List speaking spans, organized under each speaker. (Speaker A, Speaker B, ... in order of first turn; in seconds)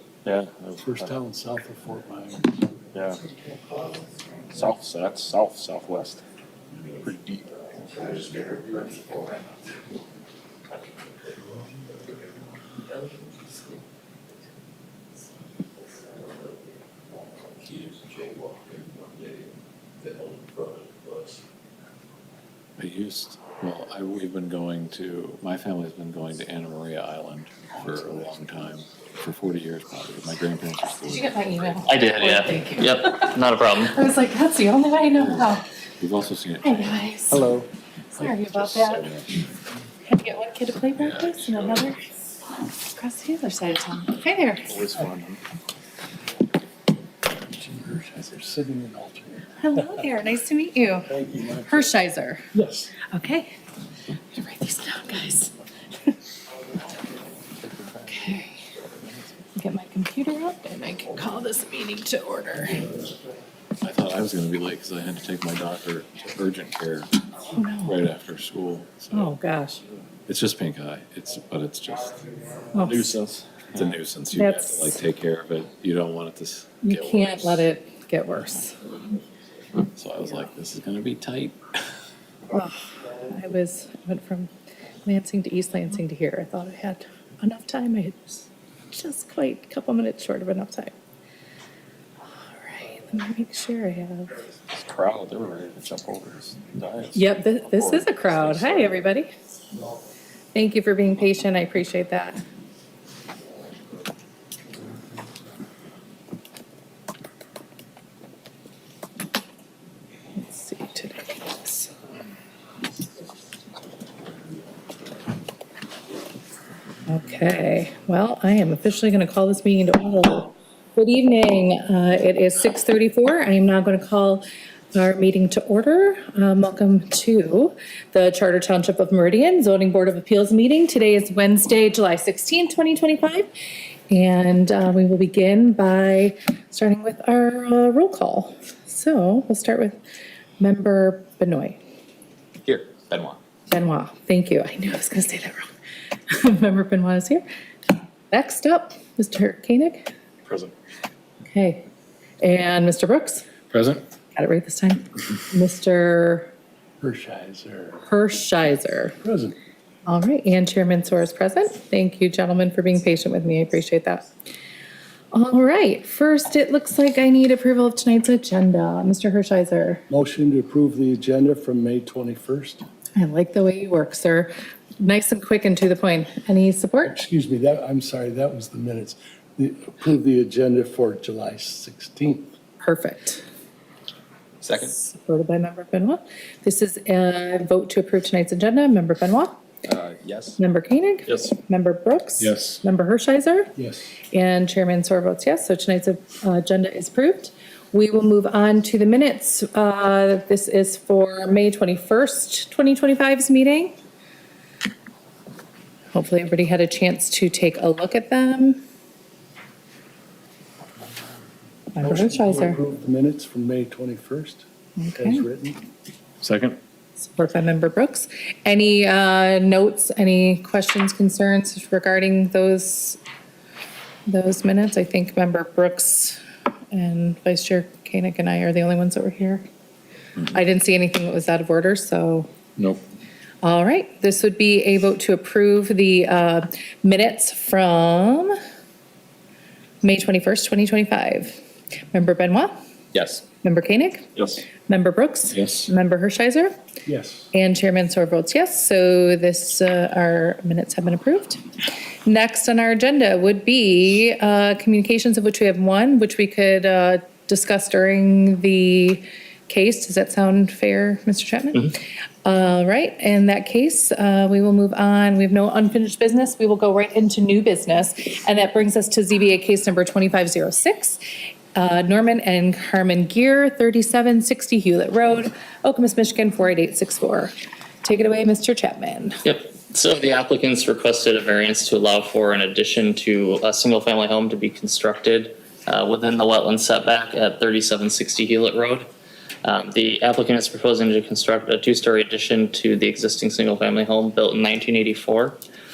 Speaker A: 0.3-0.5, 4.7-5.5, 31.9-34.0, 142.7-143.4, 243.1-243.4, 279.4-289.1, 289.6-295.6
Speaker B: 0.4-1.2, 4.5-6.2, 6.9-7.5, 8.1-9.3, 17.6-19.4, 20.0-21.4, 44.9-45.4, 94.8-97.2, 97.7-98.9, 189.9-190.6
Speaker C: 0.8-2.7, 47.5-50.0, 51.0-52.0, 52.5-52.9, 157.0-158.1, 159.2-159.6, 170.1-172.8, 177.1-182.5, 193.8-194.1, 212.0-215.8, 247.1-247.5
Speaker D: 22.8-31.6, 35.1-37.6, 38.1-39.4, 57.6-58.1, 63.8-67.1, 67.8-69.3, 70.3-77.7, 79.9-81.6, 150.5-150.7, 153.7-154.0, 192.4-192.8, 216.4-216.8, 245.5-245.9
Speaker E: 31.1-35.6, 36.6-37.5, 38.2-39.1, 40.0-42.3, 42.9-44.8, 49.6-51.1, 51.7-52.5, 53.1-53.5, 54.3-55.5, 58.1-58.5, 59.6-62.8, 67.5-68.0, 69.1-69.8, 72.7-73.1, 74.3-75.0, 76.8-78.8, 82.5-84.5, 85.1-90.9, 92.4-94.3, 97.1-99.3, 100.5-102.4, 110.4-111.9, 117.1-133.5, 134.1-140.0, 140.6-141.8, 143.7-145.7, 146.3-147.4, 148.3-150.1, 151.4-151.9, 152.4-153.5, 154.3-156.5, 158.1-159.2, 160.1-164.3, 165.3-170.0, 173.2-177.2, 182.8-183.4, 184.8-189.6, 190.6-193.7, 194.3-204.0, 206.1-208.8, 211.9-212.8, 215.0-215.5, 217.2-223.2, 224.3-226.4, 226.9-229.7, 230.4-232.5, 233.6-238.5, 240.0-241.6, 242.1-242.7, 243.6-246.7, 247.5-251.6, 252.3-261.9, 262.4-271.2, 271.8-279.4